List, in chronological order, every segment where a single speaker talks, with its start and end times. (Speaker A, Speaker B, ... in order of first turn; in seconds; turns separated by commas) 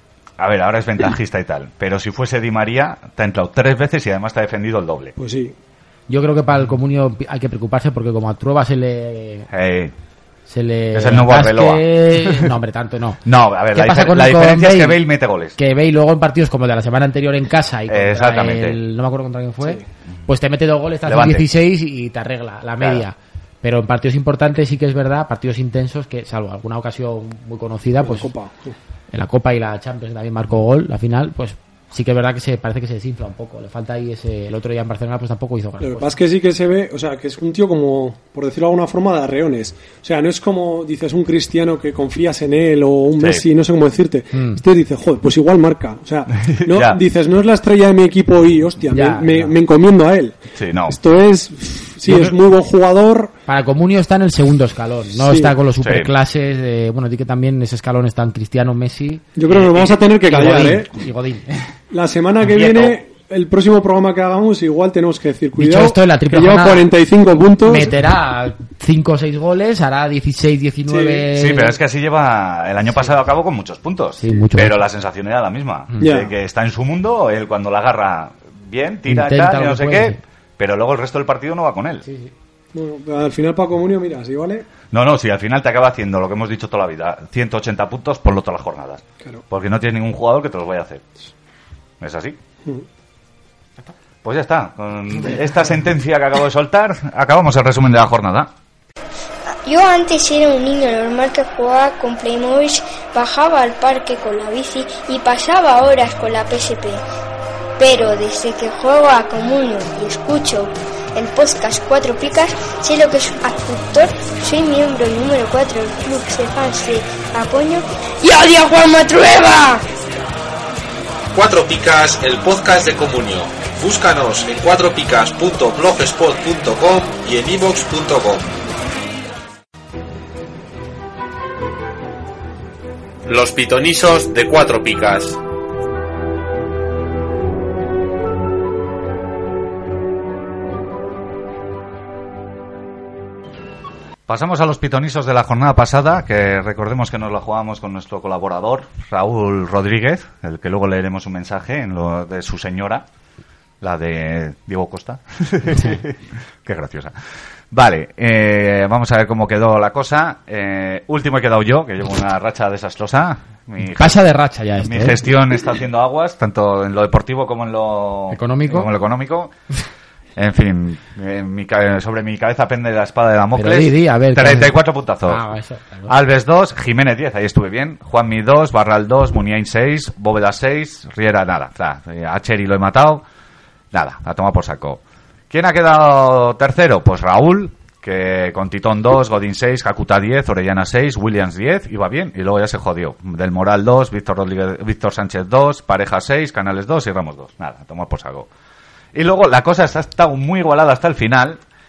Speaker A: 0.4-5.2, Speaker B: 5.2-5.5, Speaker C: 6.1-9.5, Speaker A: 9.5-9.9, Speaker C: 10.5-13.2, Speaker A: 10.9-12.5, Speaker A: 13.2-15.6, Speaker C: 13.7-15.0, Speaker C: 15.6-28.3, Speaker A: 17.9-18.8, Speaker A: 21.1-21.5, Speaker A: 22.8-23.0, Speaker B: 28.0-28.7, Speaker C: 29.1-36.1, Speaker B: 35.8-50.4, Speaker A: 43.2-43.5, Speaker C: 44.3-44.6, Speaker A: 46.4-47.0, Speaker C: 48.9-49.5, Speaker A: 50.5-51.0, Speaker B: 50.9-53.3, Speaker C: 52.1-52.3, Speaker C: 53.5-61.6, Speaker B: 55.1-55.5, Speaker A: 55.8-56.1, Speaker B: 59.4-60.9, Speaker B: 61.9-67.9, Speaker A: 62.4-63.0, Speaker C: 65.6-66.9, Speaker C: 67.7-71.8, Speaker B: 70.9-71.3, Speaker A: 71.3-82.1, Speaker C: 74.2-74.8, Speaker B: 76.0-76.3, Speaker C: 79.1-80.2, Speaker C: 82.0-82.3, Speaker B: 82.7-84.7, Speaker A: 84.9-91.0, Speaker A: 92.0-92.4, Speaker A: 94.2-98.5, Speaker D: 99.7-107.0, Speaker D: 107.8-119.8, Speaker E: 121.3-128.5, Speaker E: 133.3-135.4, Speaker A: 144.3-153.1, Speaker A: 153.8-157.1, Speaker A: 157.7-164.2, Speaker C: 163.9-165.2, Speaker A: 164.8-169.5, Speaker C: 168.3-168.9, Speaker A: 170.4-175.4, Speaker C: 173.6-176.1, Speaker A: 176.1-183.2, Speaker A: 183.9-198.5, Speaker A: 199.1-201.6